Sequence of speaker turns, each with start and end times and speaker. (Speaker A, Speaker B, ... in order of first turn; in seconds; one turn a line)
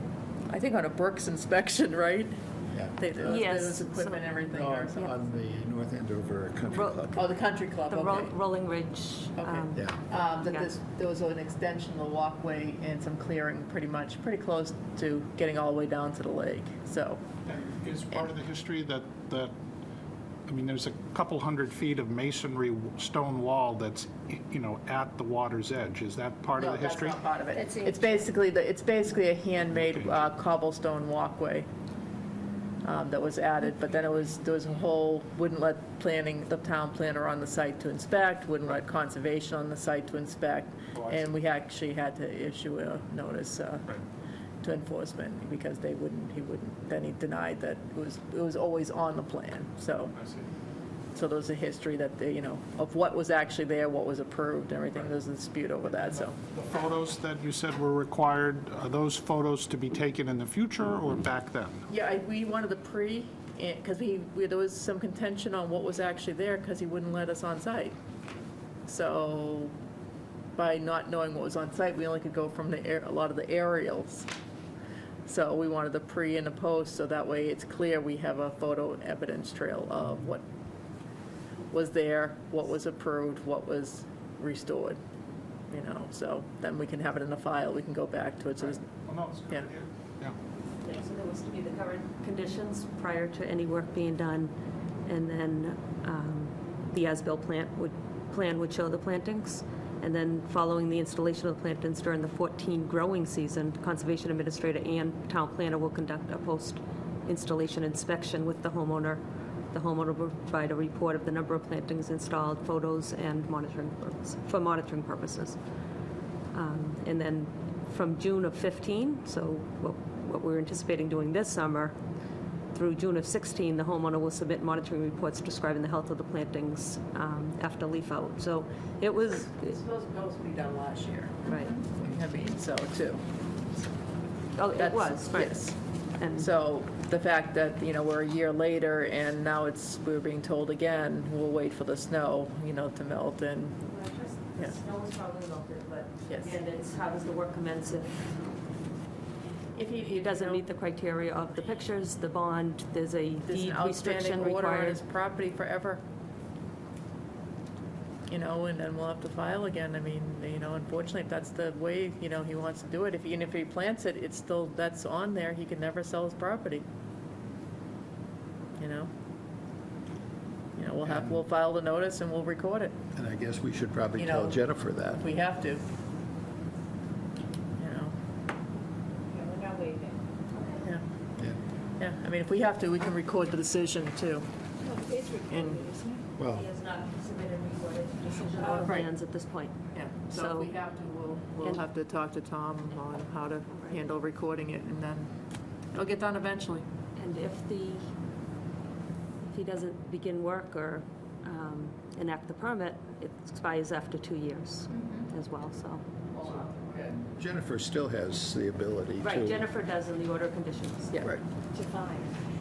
Speaker A: 0.5-2.4
Speaker B: 2.7-3.4
Speaker A: 3.0-5.2
Speaker C: 3.2-4.5
Speaker B: 4.5-7.2
Speaker C: 6.7-7.1
Speaker A: 7.1-8.3
Speaker C: 7.9-10.7
Speaker A: 9.4-17.2
Speaker D: 17.4-19.5
Speaker D: 20.5-27.2
Speaker A: 26.6-31.7
Speaker E: 27.5-28.2
Speaker A: 32.8-43.9
Speaker D: 40.9-41.2
Speaker A: 44.6-50.1
Speaker D: 50.1-50.4
Speaker A: 51.1-56.4
Speaker D: 56.4-61.8
Speaker A: 61.9-68.0
Speaker A: 68.9-69.7
Speaker A: 70.5-74.3
Speaker A: 75.3-80.4
Speaker A: 81.7-85.0
Speaker A: 85.7-88.8
Speaker D: 88.8-90.3
Speaker C: 90.8-94.5
Speaker C: 95.0-109.2
Speaker C: 109.7-115.6
Speaker C: 116.5-121.9
Speaker C: 122.7-129.7
Speaker A: 129.2-133.2
Speaker C: 131.4-131.7
Speaker C: 134.6-136.5
Speaker A: 134.7-135.8
Speaker A: 136.3-143.8
Speaker C: 143.8-148.4
Speaker A: 146.3-146.6
Speaker A: 149.8-150.6
Speaker C: 150.0-155.0
Speaker A: 153.5-156.0
Speaker A: 158.3-166.8
Speaker A: 168.8-169.1
Speaker A: 170.8-172.9
Speaker B: 171.0-171.4
Speaker B: 173.1-175.2
Speaker A: 174.2-174.6
Speaker A: 175.1-175.8
Speaker A: 177.8-178.1
Speaker E: 179.3-180.2
Speaker A: 182.0-184.4
Speaker E: 184.8-186.2
Speaker A: 185.5-186.0
Speaker B: 186.4-186.6
Speaker C: 186.5-189.8
Speaker A: 188.7-189.1
Speaker A: 189.9-195.3
Speaker C: 190.3-190.7
Speaker C: 193.7-194.0
Speaker A: 195.9-196.8
Speaker C: 197.2-198.0
Speaker C: 199.4-206.0
Speaker A: 206.3-206.6
Speaker B: 206.4-209.7
Speaker C: 209.2-211.1
Speaker A: 211.1-211.4
Speaker E: 211.7-212.3